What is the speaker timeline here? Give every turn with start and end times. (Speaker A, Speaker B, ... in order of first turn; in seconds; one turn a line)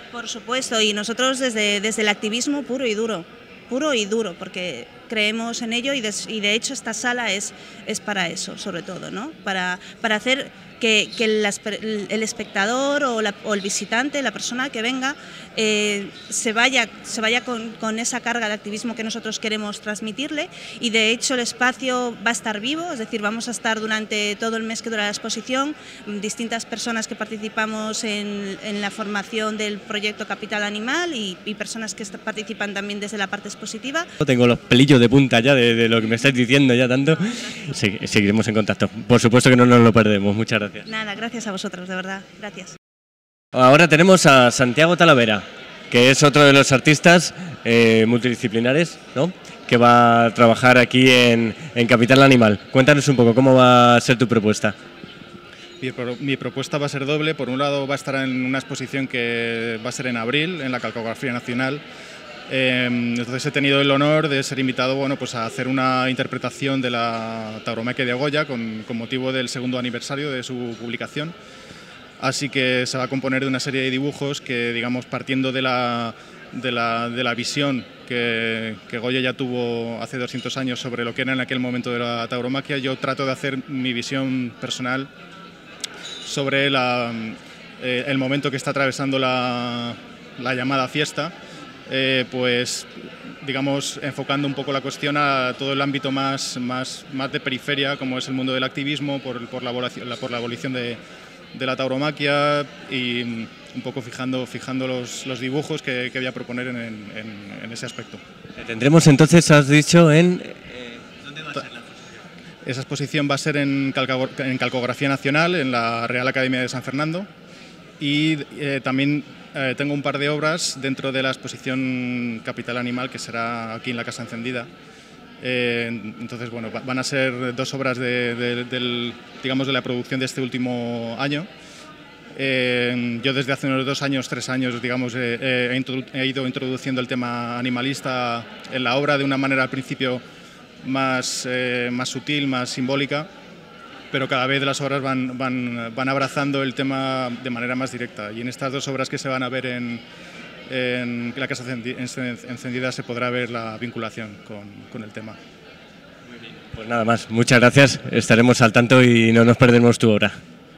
Speaker A: 0.1-34.0
Speaker B: 34.2-40.8
Speaker A: 40.9-42.7
Speaker B: 43.5-54.7
Speaker C: 55.8-61.8
Speaker C: 62.5-71.3
Speaker C: 72.2-85.1
Speaker C: 86.2-91.3
Speaker C: 91.9-92.9
Speaker C: 93.4-101.0
Speaker C: 101.5-108.2
Speaker B: 108.6-111.0
Speaker C: 112.6-117.3
Speaker C: 118.0-124.7
Speaker C: 125.4-131.5
Speaker C: 132.4-140.2
Speaker C: 140.8-143.3
Speaker C: 144.1-150.0
Speaker C: 150.7-155.4
Speaker B: 156.7-160.4